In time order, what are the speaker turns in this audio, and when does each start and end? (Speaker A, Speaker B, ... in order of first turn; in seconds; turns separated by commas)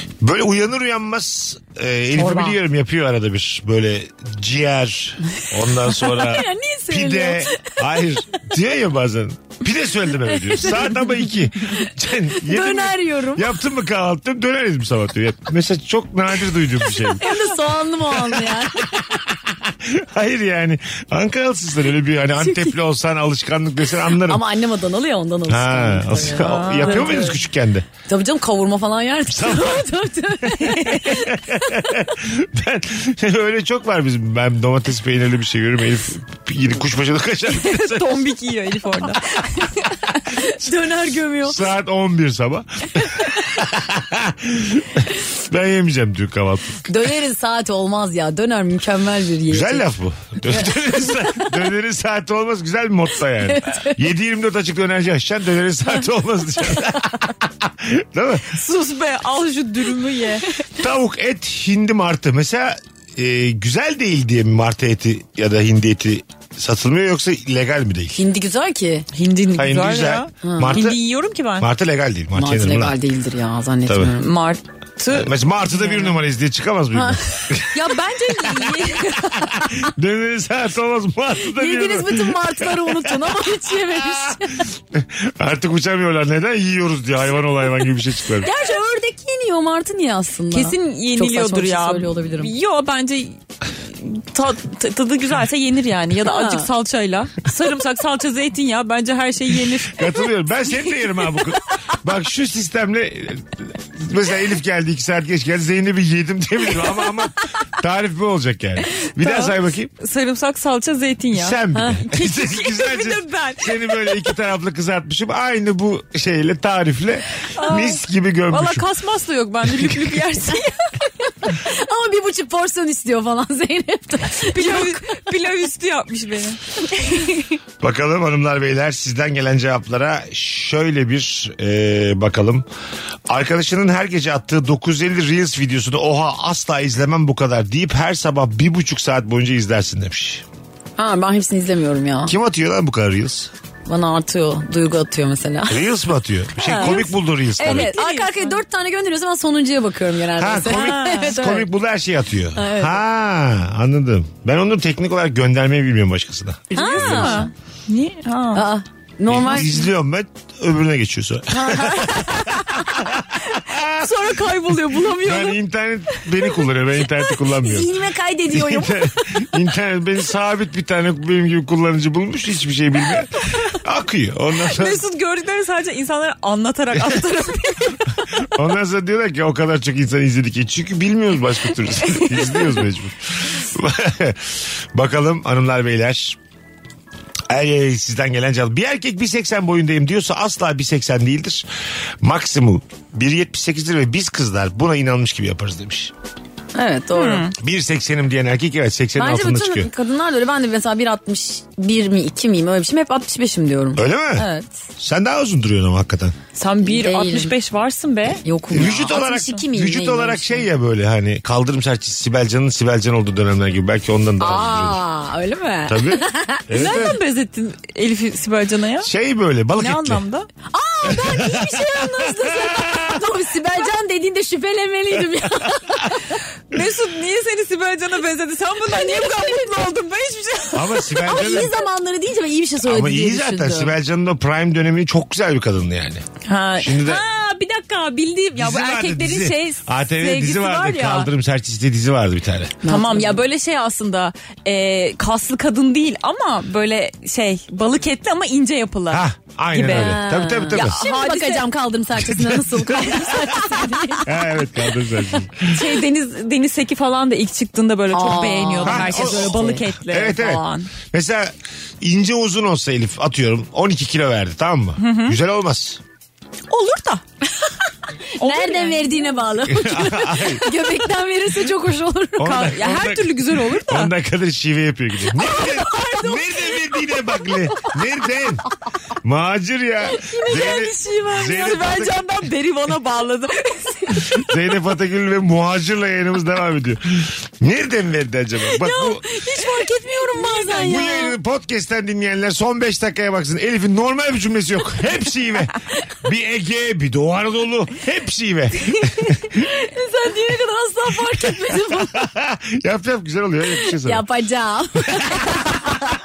Speaker A: 0.2-17.3, Speaker B: 2.2-2.5, Speaker C: 6.0-7.8, Speaker C: 10.3-13.5, Speaker C: 17.2-19.2, Speaker A: 18.1-24.4, Speaker C: 22.4-22.7, Speaker C: 24.2-27.4, Speaker A: 25.5-27.9, Speaker B: 26.3-27.3, Speaker C: 28.1-31.9, Speaker A: 29.3-29.9, Speaker A: 30.4-38.3, Speaker B: 30.6-31.2, Speaker B: 37.5-40.2, Speaker C: 40.3-41.6, Speaker A: 41.4-46.9, Speaker C: 46.9-49.9, Speaker A: 49.5-58.5, Speaker C: 50.5-51.5, Speaker C: 53.5-54.0, Speaker B: 58.5-60.6, Speaker A: 60.8-68.2, Speaker C: 68.2-69.1, Speaker B: 69.1-71.7, Speaker A: 69.5-71.0, Speaker C: 70.4-70.8, Speaker A: 71.6-73.0, Speaker C: 72.4-74.3, Speaker A: 73.9-74.1, Speaker B: 74.2-76.1, Speaker A: 75.1-88.5, Speaker C: 76.9-77.2, Speaker B: 77.7-79.5, Speaker C: 81.4-84.7, Speaker C: 88.4-92.5, Speaker B: 90.5-93.4, Speaker B: 94.0-100.3, Speaker C: 96.2-96.7, Speaker A: 99.9-109.9, Speaker B: 109.0-114.4, Speaker A: 111.3-118.9, Speaker C: 111.7-112.0, Speaker B: 117.5-120.9, Speaker A: 119.9-120.1, Speaker C: 121.4-125.3, Speaker B: 124.4-127.6, Speaker A: 127.8-132.7, Speaker A: 133.3-140.4, Speaker C: 141.0-142.3, Speaker A: 142.2-143.5, Speaker C: 143.9-145.9, Speaker A: 145.7-147.9, Speaker C: 146.6-147.0, Speaker B: 146.8-148.6, Speaker C: 147.6-151.6, Speaker A: 150.4-157.4, Speaker B: 150.6-151.5, Speaker C: 152.6-153.0, Speaker B: 156.7-158.7, Speaker C: 156.7-157.5, Speaker C: 158.5-159.8, Speaker A: 159.3-164.1, Speaker C: 161.6-162.1, Speaker B: 161.7-162.8, Speaker B: 164.0-165.6, Speaker A: 165.2-167.9, Speaker C: 167.6-169.2, Speaker A: 168.5-175.0, Speaker B: 174.7-178.2, Speaker A: 178.4-186.4, Speaker B: 182.1-182.7, Speaker A: 187.5-191.7, Speaker A: 192.2-196.1, Speaker C: 196.7-197.5, Speaker B: 197.1-197.5, Speaker A: 197.6-199.9, Speaker C: 199.2-204.7, Speaker A: 203.9-206.4, Speaker B: 206.6-208.4, Speaker C: 206.8-207.5, Speaker C: 208.4-210.7, Speaker A: 208.7-215.0, Speaker C: 214.4-217.2, Speaker A: 215.9-217.2, Speaker B: 216.7-219.1, Speaker A: 219.0-220.2, Speaker B: 219.8-220.5, Speaker C: 220.7-226.4, Speaker A: 221.1-223.2, Speaker B: 226.7-231.1, Speaker C: 228.9-229.9, Speaker A: 230.7-231.7, Speaker C: 231.2-233.9, Speaker A: 232.8-236.2, Speaker B: 236.4-241.3, Speaker A: 236.8-237.2, Speaker A: 238.6-242.8, Speaker C: 242.8-243.4, Speaker B: 242.8-251.7, Speaker A: 249.1-251.0, Speaker C: 249.8-254.3, Speaker A: 252.2-255.9, Speaker B: 255.7-260.9, Speaker C: 258.1-259.8, Speaker A: 258.8-266.0, Speaker B: 265.0-265.4, Speaker B: 266.7-267.2, Speaker C: 268.4-272.7, Speaker B: 268.4-269.4, Speaker A: 269.6-270.7, Speaker B: 272.4-274.1, Speaker A: 272.4-278.6, Speaker C: 275.5-276.4, Speaker B: 275.5-276.2, Speaker A: 279.2-282.3, Speaker C: 280.2-280.8, Speaker B: 280.3-284.4, Speaker A: 284.3-289.3, Speaker B: 288.7-291.3, Speaker C: 289.6-291.3, Speaker A: 290.8-299.6, Speaker B: 298.9-299.3, Speaker C: 299.6-302.3, Speaker A: 301.7-304.2, Speaker C: 303.8-306.0